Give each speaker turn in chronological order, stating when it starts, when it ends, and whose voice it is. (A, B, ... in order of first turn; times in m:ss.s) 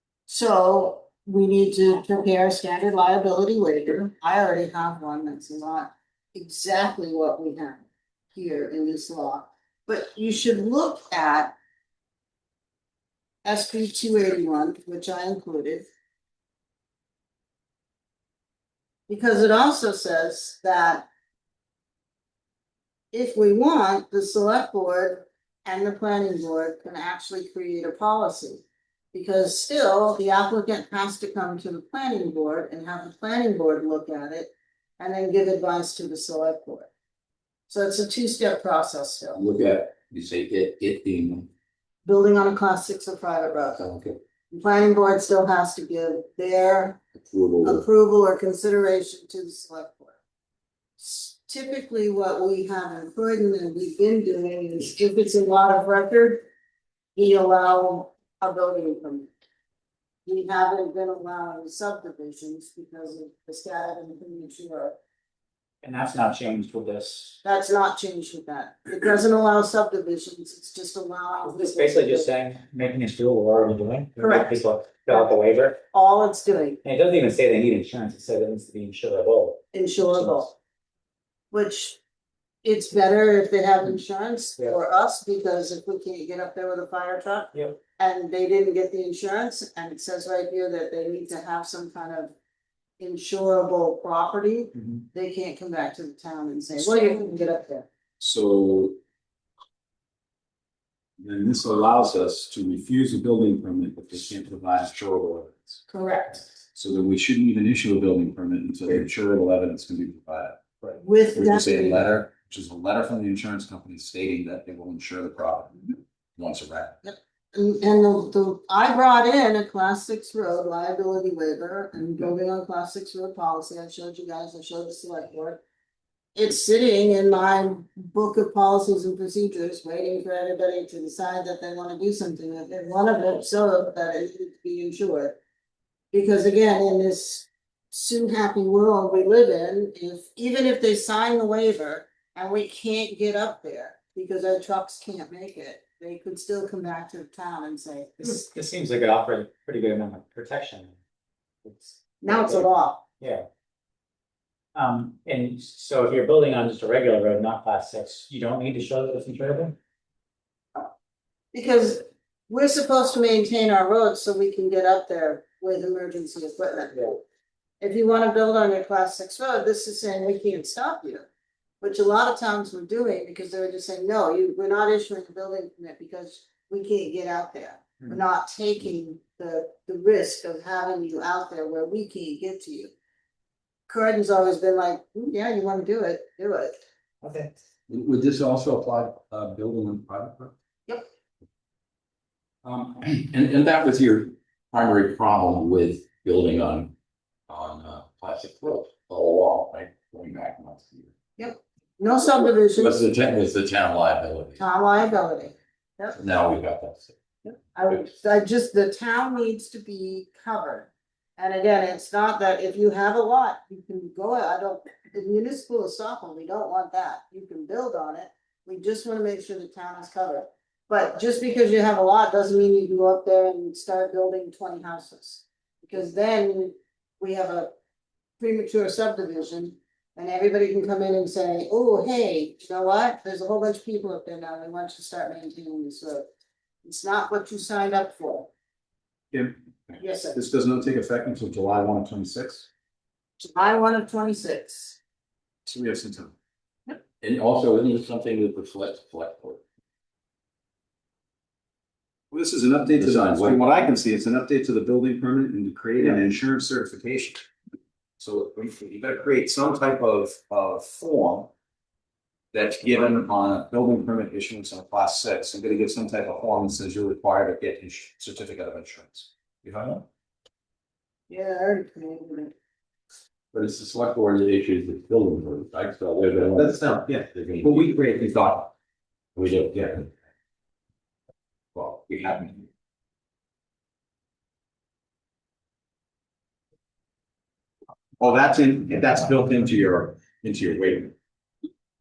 0:00.3-0:11.6 A
0:13.4-0:15.9 A
0:19.1-0:21.1 A
0:23.1-0:36.9 A
0:37.7-0:39.4 A
0:39.4-0:41.5 B
0:42.0-0:43.9 A
0:43.8-0:44.2 B
0:44.5-0:47.0 A
0:47.2-0:47.8 B
0:47.6-0:50.2 A
0:51.0-0:56.5 A
0:57.2-0:59.3 A
1:00.3-1:05.0 A
1:05.8-1:07.4 C
1:07.4-1:12.3 A
1:11.4-1:15.8 C
1:14.2-1:15.2 A
1:15.9-1:16.8 A
1:16.8-1:20.4 C
1:19.7-1:20.6 A
1:21.5-1:22.0 A
1:22.6-1:32.4 A
1:27.5-1:27.8 C
1:33.0-1:37.9 A
1:34.8-1:35.0 C
1:38.2-1:39.0 D
1:41.2-1:45.8 D
1:45.9-1:46.5 A
1:46.8-1:55.8 D
1:51.0-1:52.1 A
1:56.4-1:57.0 D
1:57.0-2:05.6 A
2:06.4-2:15.4 A
2:16.1-2:28.4 A
2:28.2-2:31.0 C
2:31.6-2:32.7 C
2:32.2-2:33.0 A
2:33.2-2:33.5 C
2:34.8-2:39.8 C
2:41.5-2:47.2 A
2:47.8-2:51.3 A
2:51.8-3:02.9 A
3:03.9-3:06.8 A
3:07.2-3:07.5 C
3:07.9-3:10.5 B
3:12.6-3:16.9 B
3:17.5-3:21.1 B
3:21.4-3:23.0 A
3:22.8-3:24.6 B
3:24.6-3:26.2 A
3:26.2-3:27.1 B
3:27.4-3:47.7 A
3:48.4-3:56.3 A
3:56.8-3:58.5 A
3:59.3-4:02.7 D
4:00.0-4:00.4 A
4:03.4-4:05.0 A
4:05.7-4:06.3 D
4:07.2-4:09.6 B
4:12.3-4:17.4 D
4:13.0-4:13.6 B
4:18.2-4:21.5 D
4:22.5-4:30.1 D
4:31.3-4:32.5 A
4:33.5-4:37.9 B
4:36.3-4:38.7 D
4:39.4-4:40.1 B
4:41.8-4:42.1 D
4:42.0-4:42.4 B
4:48.2-4:51.1 D